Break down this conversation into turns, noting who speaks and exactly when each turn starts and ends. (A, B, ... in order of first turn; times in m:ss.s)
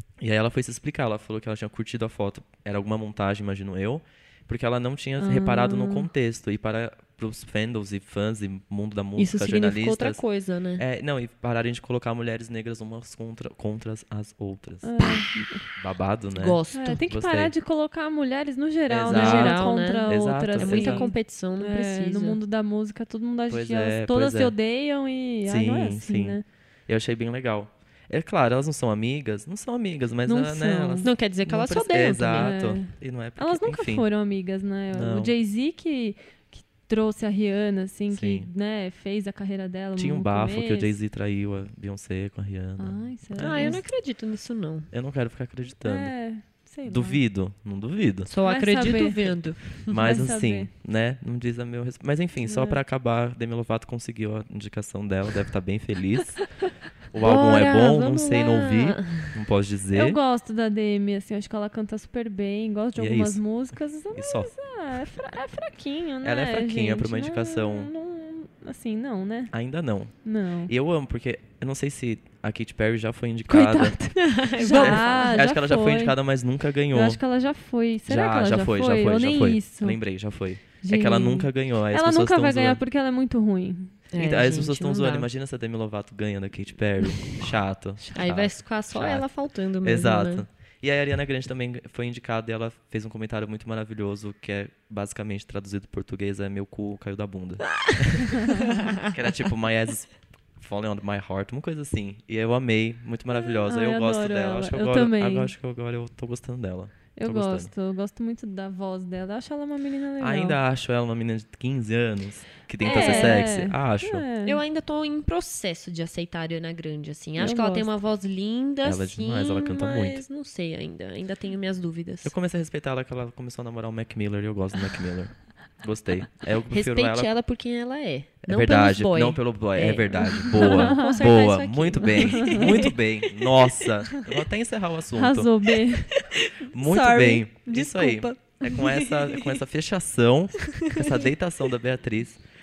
0:00.2-0:10.2 A
0:05.2-0:06.1 B
0:09.2-0:10.8 C
0:10.8-0:14.9 A
0:14.8-0:15.6 B
0:15.8-0:17.5 A
0:16.4-0:17.0 C
0:16.7-0:26.4 B
0:18.9-0:21.1 A
0:19.1-0:22.4 C
0:23.5-0:24.5 A
0:25.4-0:34.1 A
0:30.3-0:31.1 B
0:31.0-0:32.5 C
0:32.3-0:40.9 B
0:34.9-0:35.3 A
0:38.1-0:38.5 A
0:40.0-0:43.8 A
0:42.8-0:43.8 B
0:43.4-0:44.9 C
0:44.9-0:46.1 A
0:45.8-0:47.2 B
0:46.8-0:48.3 A
0:48.3-0:50.0 C
0:48.4-0:50.7 B
0:49.9-0:56.4 A
0:52.4-0:52.8 B
0:57.1-1:00.2 A
0:57.2-0:59.3 C
0:59.9-1:09.5 B
1:03.0-1:03.4 A
1:04.1-1:04.5 A
1:06.2-1:07.9 A
1:09.5-1:10.1 A
1:10.2-1:10.7 B
1:10.7-1:14.0 A
1:13.5-1:16.2 B
1:14.2-1:15.5 C
1:14.7-1:17.2 A
1:16.9-1:20.0 B
1:18.1-1:22.8 A
1:20.8-1:24.0 B
1:24.1-1:25.3 C
1:24.2-1:29.3 A
1:28.1-1:30.5 C
1:29.8-1:47.7 A
1:38.7-1:39.0 C
1:43.3-1:45.5 B
1:47.2-1:50.6 B
1:50.2-1:54.2 A
1:52.8-1:54.6 B
1:52.8-1:53.5 C
1:54.4-2:02.3 C
1:57.4-1:57.9 B
1:58.8-2:00.2 A
2:02.2-2:07.3 A
2:06.7-2:13.9 C
2:08.4-2:15.5 A
2:10.5-2:12.9 B
2:15.1-2:16.2 B
2:16.1-2:19.6 C
2:16.7-2:22.4 A
2:16.8-2:17.4 B
2:20.7-2:21.2 C